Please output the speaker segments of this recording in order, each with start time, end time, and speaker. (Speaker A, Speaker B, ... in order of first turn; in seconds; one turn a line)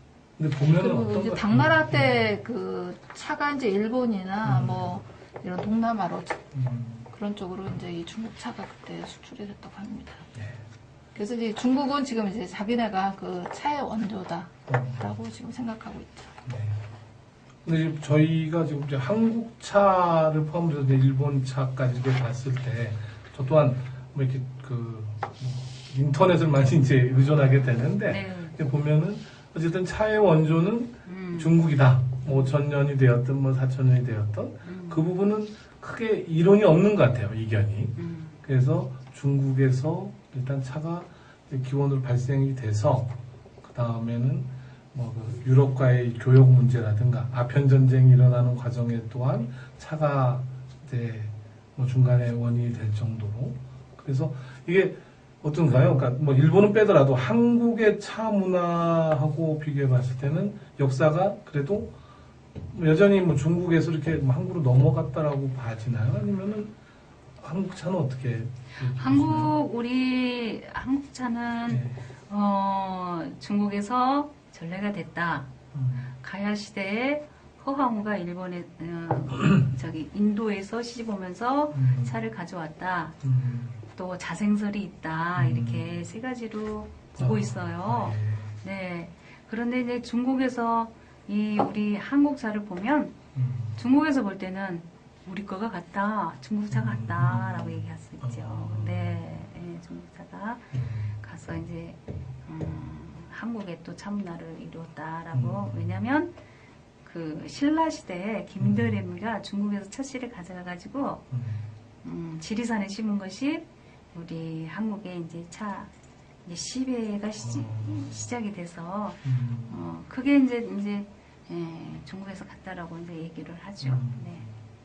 Speaker A: 0.4-2.3
Speaker B: 0.7-6.4
Speaker A: 4.4-4.9
Speaker A: 6.5-7.1
Speaker B: 7.1-10.3
Speaker A: 10.3-10.6
Speaker B: 11.1-16.4
Speaker A: 14.7-15.1
Speaker A: 16.4-16.8
Speaker A: 17.6-61.9
Speaker C: 28.1-28.6
Speaker C: 31.0-31.6
Speaker C: 34.6-35.1
Speaker C: 38.0-38.4
Speaker A: 62.7-66.7
Speaker A: 67.4-69.5
Speaker C: 68.8-75.5
Speaker A: 71.7-72.0
Speaker A: 75.7-76.1
Speaker C: 76.2-83.2
Speaker A: 81.7-82.1
Speaker A: 83.2-83.8
Speaker C: 83.9-93.2
Speaker A: 85.3-86.0
Speaker A: 87.2-88.6
Speaker A: 93.3-93.8
Speaker C: 93.7-106.4
Speaker A: 96.7-99.2
Speaker A: 100.7-101.2
Speaker A: 105.3-105.9
Speaker C: 107.0-111.2
Speaker A: 108.6-109.0
Speaker A: 111.3-111.7
Speaker C: 112.0-115.9
Speaker C: 116.4-124.5
Speaker A: 117.4-118.2
Speaker A: 119.2-119.8
Speaker A: 123.8-124.5